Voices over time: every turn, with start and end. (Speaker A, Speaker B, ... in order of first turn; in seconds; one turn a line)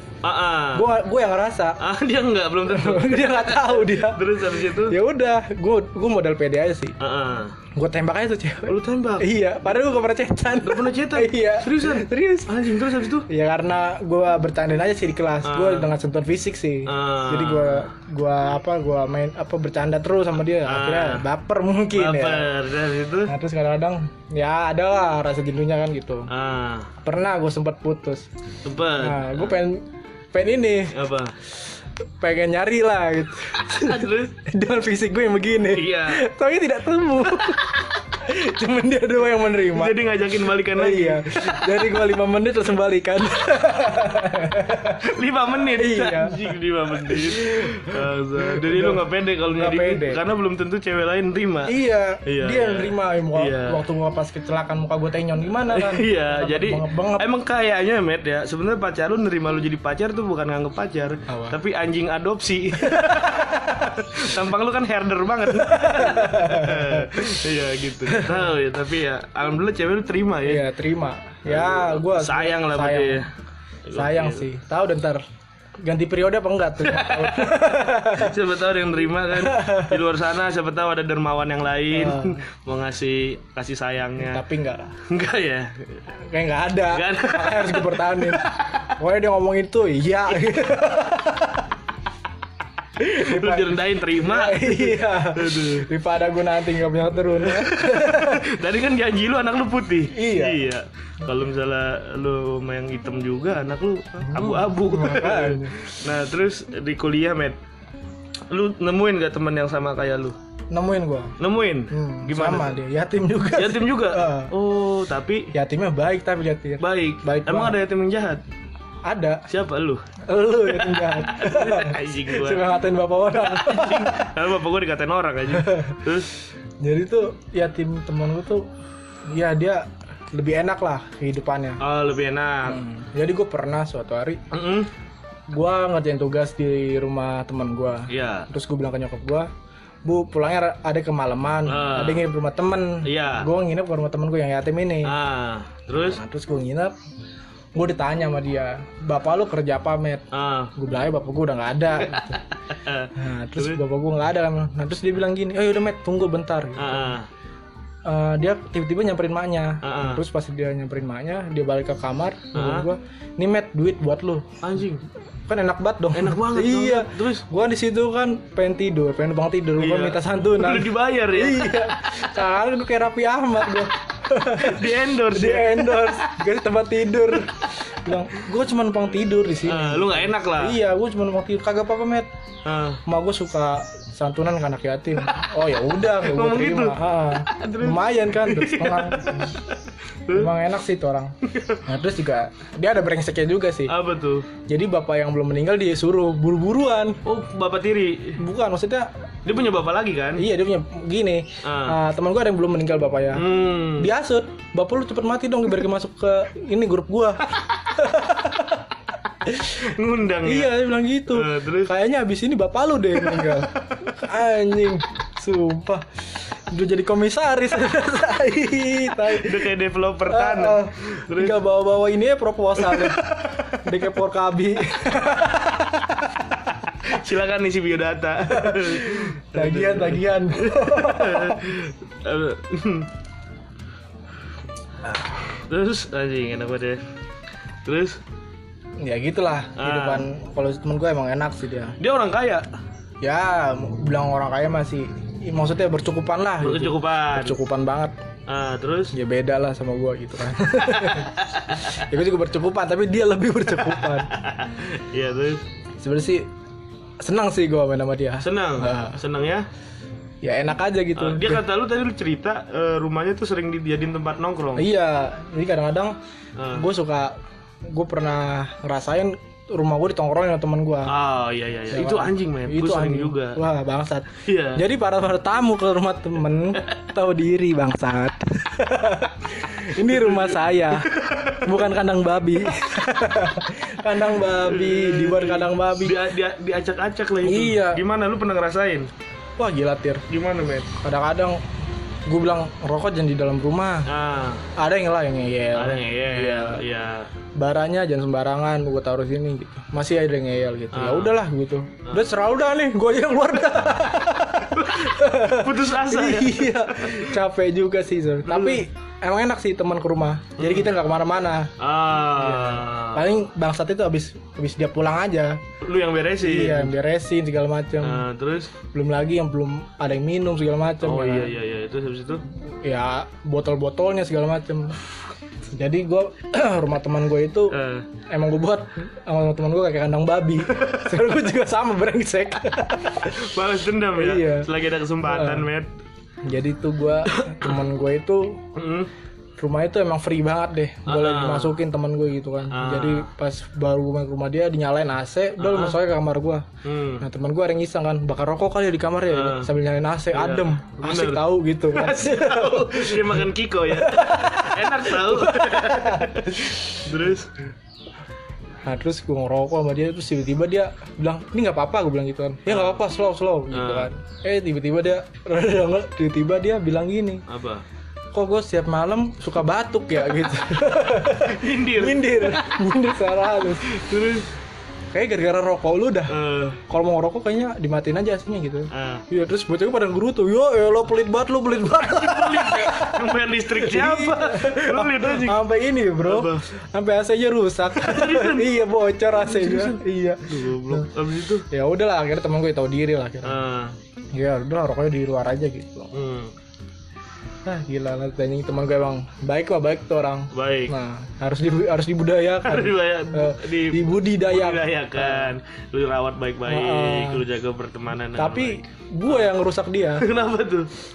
Speaker A: 0.2-0.9
Speaker B: 0.7-1.8
Speaker A: 1.8-5.0
Speaker B: 2.7-6.9
Speaker A: 7.0-7.6
Speaker B: 7.7-12.5
Speaker A: 8.7-9.3
Speaker A: 10.6-13.3
Speaker B: 13.3-22.5
Speaker A: 15.4-15.9
Speaker A: 16.9-17.9
Speaker A: 20.6-21.2
Speaker A: 21.9-23.3
Speaker B: 23.2-26.3
Speaker A: 26.3-26.9
Speaker B: 27.0-28.3
Speaker A: 28.6-29.6
Speaker B: 29.0-31.0
Speaker A: 30.9-31.3
Speaker B: 32.2-40.0
Speaker A: 33.7-34.3
Speaker A: 35.7-36.2
Speaker A: 39.7-41.9
Speaker B: 40.7-45.1
Speaker A: 45.0-53.8
Speaker B: 45.6-49.0
Speaker B: 49.5-50.2
Speaker B: 51.7-57.3
Speaker A: 55.7-70.6
Speaker B: 61.3-61.6
Speaker B: 62.8-63.9
Speaker B: 65.5-67.4
Speaker B: 68.0-68.4
Speaker B: 70.4-73.2
Speaker A: 71.5-73.3
Speaker A: 73.9-74.5
Speaker B: 73.9-75.2
Speaker B: 75.8-78.4
Speaker A: 76.8-84.4
Speaker B: 79.3-80.0
Speaker B: 81.9-82.4
Speaker B: 84.2-85.0
Speaker A: 85.0-86.0
Speaker B: 86.2-88.4
Speaker A: 86.9-88.9
Speaker B: 89.0-91.7
Speaker B: 93.0-98.5
Speaker A: 93.1-95.9
Speaker A: 97.3-107.6
Speaker B: 100.1-100.7
Speaker B: 104.3-105.8
Speaker A: 108.5-110.3
Speaker B: 110.7-111.3
Speaker A: 111.4-112.8
Speaker B: 111.9-114.5
Speaker A: 113.5-115.5
Speaker B: 115.5-117.8
Speaker A: 116.8-118.4
Speaker B: 119.0-119.4
Speaker A: 119.5-120.1
Speaker B: 120.3-124.3
Speaker A: 120.7-122.7
Speaker A: 123.3-126.3
Speaker B: 125.5-126.0
Speaker B: 126.8-128.7
Speaker B: 129.3-131.8
Speaker A: 131.8-132.8
Speaker B: 132.7-134.4
Speaker A: 134.5-134.9
Speaker B: 135.5-139.5
Speaker A: 138.1-138.5
Speaker B: 140.0-145.1
Speaker A: 141.7-142.2
Speaker A: 143.0-143.5
Speaker A: 145.0-146.2
Speaker B: 145.9-146.9
Speaker B: 147.7-152.4
Speaker A: 150.3-150.7
Speaker A: 152.0-153.8
Speaker B: 153.1-157.2
Speaker A: 156.8-157.3
Speaker B: 158.0-164.6
Speaker A: 159.8-160.2
Speaker A: 162.5-162.9
Speaker A: 164.6-165.0
Speaker B: 165.5-182.3
Speaker A: 166.1-167.4
Speaker A: 169.8-171.7
Speaker A: 174.5-176.3
Speaker A: 179.6-180.8
Speaker A: 182.6-183.0
Speaker B: 183.1-189.6
Speaker A: 186.2-190.5
Speaker B: 190.3-193.9
Speaker A: 191.4-191.8
Speaker A: 193.9-194.5
Speaker B: 194.7-197.2
Speaker A: 197.2-198.4
Speaker B: 198.4-199.1
Speaker A: 199.4-200.5
Speaker B: 200.3-208.8
Speaker A: 201.6-202.0
Speaker A: 203.3-204.1
Speaker B: 209.4-209.8
Speaker A: 209.6-211.9
Speaker B: 210.4-216.2
Speaker B: 216.7-219.7
Speaker A: 219.2-221.6
Speaker B: 220.3-226.1
Speaker A: 222.8-223.8
Speaker A: 226.8-233.1
Speaker B: 228.5-231.7
Speaker A: 235.1-237.0
Speaker A: 237.8-238.2
Speaker B: 239.0-242.0
Speaker A: 239.8-240.3
Speaker A: 242.0-242.7
Speaker B: 243.2-248.2
Speaker A: 246.6-247.6
Speaker A: 248.5-249.1
Speaker B: 249.1-254.3
Speaker A: 250.9-252.0
Speaker A: 253.8-255.6
Speaker B: 256.0-256.5
Speaker B: 257.2-259.2
Speaker A: 258.4-259.6
Speaker B: 260.4-261.6
Speaker A: 261.1-264.9
Speaker B: 264.8-266.1
Speaker A: 266.6-266.9
Speaker B: 266.7-271.1
Speaker A: 271.1-273.6
Speaker B: 271.9-286.2
Speaker A: 274.4-274.8
Speaker A: 276.7-277.1
Speaker A: 280.0-281.7
Speaker A: 284.5-289.1
Speaker B: 287.4-288.0
Speaker B: 289.6-290.2
Speaker A: 290.3-290.9
Speaker B: 291.0-291.6
Speaker B: 292.3-294.1
Speaker A: 294.1-294.6
Speaker B: 294.8-296.8
Speaker A: 295.7-297.3
Speaker B: 297.6-311.7
Speaker A: 300.9-301.4
Speaker A: 304.7-307.4
Speaker A: 308.5-308.8
Speaker A: 310.6-310.9
Speaker A: 311.8-313.3
Speaker B: 312.4-315.6
Speaker A: 315.8-316.9
Speaker B: 316.4-318.2
Speaker A: 318.0-318.7
Speaker B: 318.9-321.6
Speaker A: 321.0-322.4
Speaker B: 322.6-325.0
Speaker B: 325.7-327.8
Speaker A: 327.7-328.1
Speaker B: 328.3-333.5
Speaker A: 330.7-331.1
Speaker A: 333.2-335.9
Speaker B: 334.1-334.7
Speaker B: 335.2-335.7
Speaker B: 336.4-338.6
Speaker A: 337.3-337.8
Speaker A: 338.7-339.1
Speaker B: 339.6-346.6
Speaker A: 341.1-341.8
Speaker A: 342.7-343.3
Speaker A: 345.6-346.0
Speaker A: 346.8-347.2
Speaker B: 347.2-357.1
Speaker A: 349.3-349.7
Speaker A: 350.3-357.6
Speaker B: 358.8-367.4
Speaker A: 362.7-363.0
Speaker A: 363.7-364.1
Speaker A: 367.5-367.8
Speaker B: 368.3-374.0
Speaker A: 371.2-372.8
Speaker A: 373.7-374.5
Speaker B: 375.1-391.1
Speaker A: 376.3-376.8
Speaker A: 378.9-379.2
Speaker A: 382.0-385.6
Speaker A: 386.2-386.7
Speaker A: 387.9-388.7
Speaker A: 389.4-391.6
Speaker B: 391.7-393.6
Speaker A: 393.4-393.9
Speaker B: 394.3-396.1
Speaker A: 396.1-396.5
Speaker B: 397.6-405.5
Speaker A: 400.5-400.9
Speaker A: 402.6-409.5
Speaker B: 406.6-407.4
Speaker B: 408.3-410.3
Speaker A: 410.1-410.9